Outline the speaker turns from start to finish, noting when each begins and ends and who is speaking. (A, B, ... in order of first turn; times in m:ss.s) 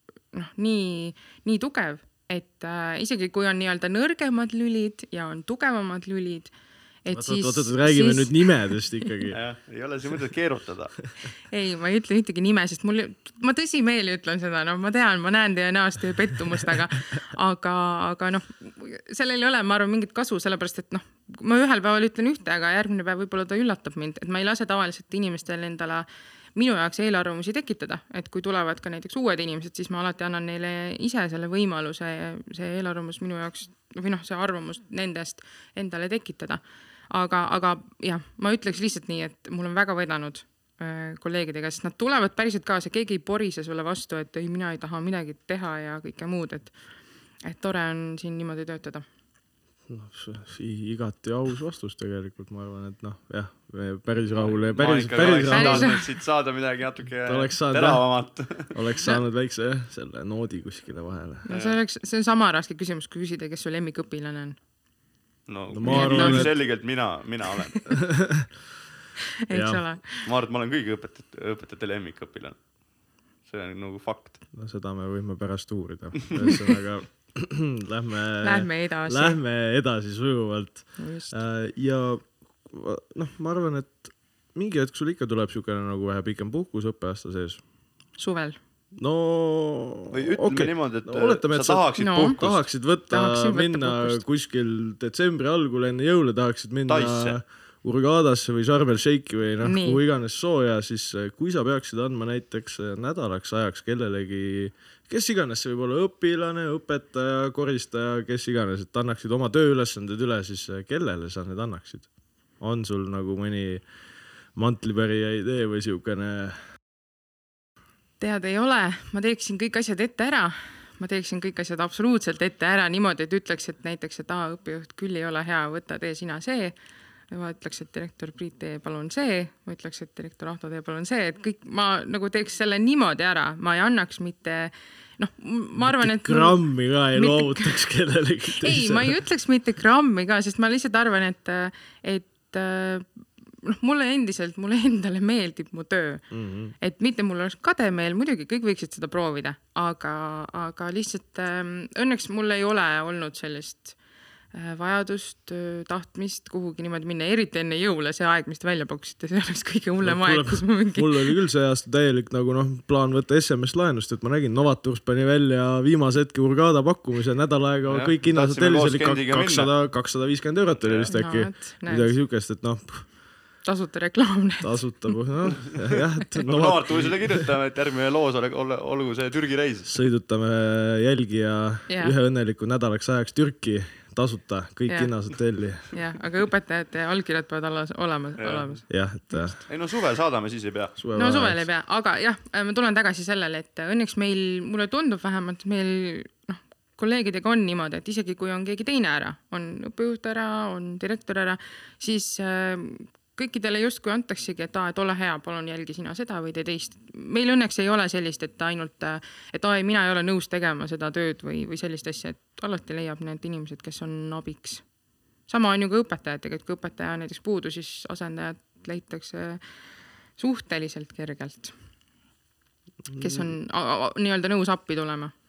0:00.3-0:06.5 A
0:07.0-0:08.8 A
0:07.1-0:09.4 B
0:09.3-0:11.0 C
0:11.5-0:46.7 A
0:47.4-0:49.0 A
0:49.9-0:55.9 B
0:54.3-0:58.8 C
0:55.5-0:56.0 A
0:57.3-1:01.5 B
1:01.4-1:04.6 A
1:01.5-1:01.8 C
1:05.5-1:07.8 C
1:05.7-1:06.5 B
1:05.9-1:06.5 A
1:08.0-1:08.5 B
1:09.5-1:10.3 A
1:09.5-1:09.8 B
1:10.2-1:12.6 C
1:13.4-1:14.4 C
1:14.5-1:27.6 B
1:18.4-1:19.4 A
1:21.0-1:21.4 A
1:28.2-1:28.6 A
1:29.0-1:52.1 B
1:30.1-1:32.7 C
1:32.0-1:32.4 A
1:33.1-1:34.2 A
1:36.9-1:37.4 C
1:39.6-1:40.0 A
1:52.6-1:53.8 B
1:54.6-1:56.6 B
1:58.2-2:06.7 A
2:07.3-2:16.6 A
2:15.8-2:19.2 B
2:17.1-2:17.8 A
2:18.6-2:23.1 A
2:23.6-2:26.3 A
2:26.3-2:26.7 B
2:26.8-2:34.0 A
2:34.5-2:41.4 A
2:40.0-2:53.1 B
2:47.9-2:49.7 C
2:50.8-2:51.1 C
2:51.1-2:52.2 A
2:53.6-2:55.1 A
2:54.6-2:57.4 B
2:56.4-2:59.9 C
2:59.9-3:05.9 B
3:04.9-3:05.2 A
3:05.8-3:09.5 A
3:08.4-3:08.8 C
3:08.9-3:09.6 B
3:09.7-3:11.0 C
3:11.0-3:11.7 B
3:11.2-3:34.8 A
3:35.5-3:39.6 A
3:40.4-3:41.7 A
3:43.1-3:43.5 B
3:43.2-3:45.3 A